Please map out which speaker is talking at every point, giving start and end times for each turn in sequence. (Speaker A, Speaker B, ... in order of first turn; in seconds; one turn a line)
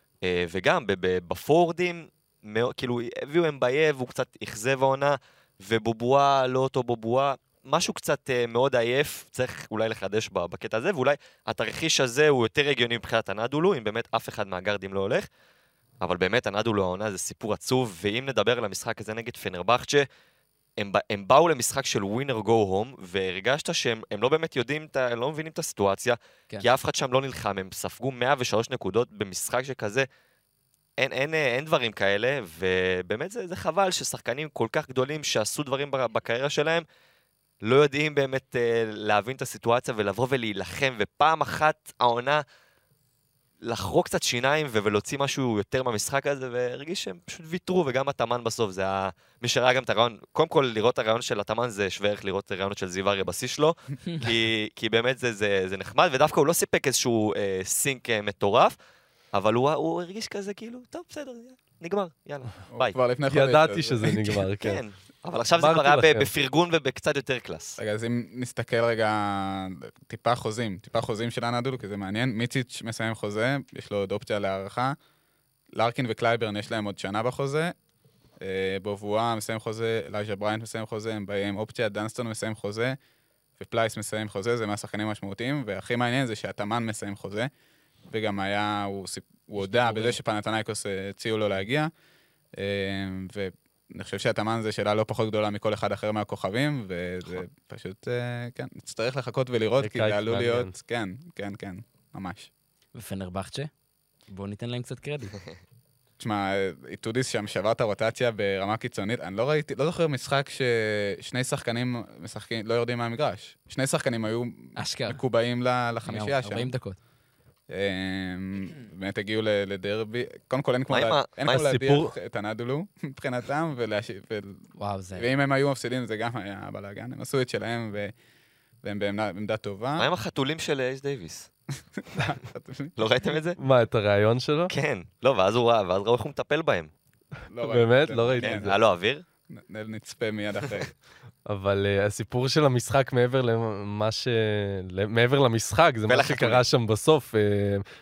Speaker A: 0.2-15.3
Speaker A: 16.0-20.1
Speaker A: 20.8-30.1
Speaker A: 31.0-36.8
Speaker A: 37.6-42.4
Speaker A: 43.6-58.8
Speaker A: 59.3-63.0
Speaker B: 62.7-64.4
Speaker C: 63.3-64.8
Speaker A: 64.6-67.8
Speaker C: 65.5-66.3
Speaker B: 67.8-75.0
Speaker B: 75.7-77.7
Speaker B: 78.4-83.0
Speaker B: 83.6-87.5
Speaker B: 88.1-91.9
Speaker D: 89.6-90.2
Speaker B: 92.5-102.5
Speaker C: 99.8-100.7
Speaker D: 102.9-103.7
Speaker D: 104.3-105.3
Speaker B: 106.2-116.7
Speaker D: 114.8-115.2
Speaker D: 116.0-117.0
Speaker B: 117.7-124.6
Speaker A: 120.9-121.7
Speaker C: 121.5-122.1
Speaker D: 124.8-125.3
Speaker B: 125.1-128.1
Speaker B: 128.8-130.1
Speaker A: 130.0-131.5
Speaker B: 132.0-132.9
Speaker A: 133.0-133.6
Speaker C: 133.6-134.7
Speaker A: 134.7-136.9
Speaker B: 137.5-138.7
Speaker C: 137.6-138.8
Speaker A: 138.4-139.2
Speaker B: 139.5-140.9
Speaker C: 141.4-147.8
Speaker A: 146.1-146.6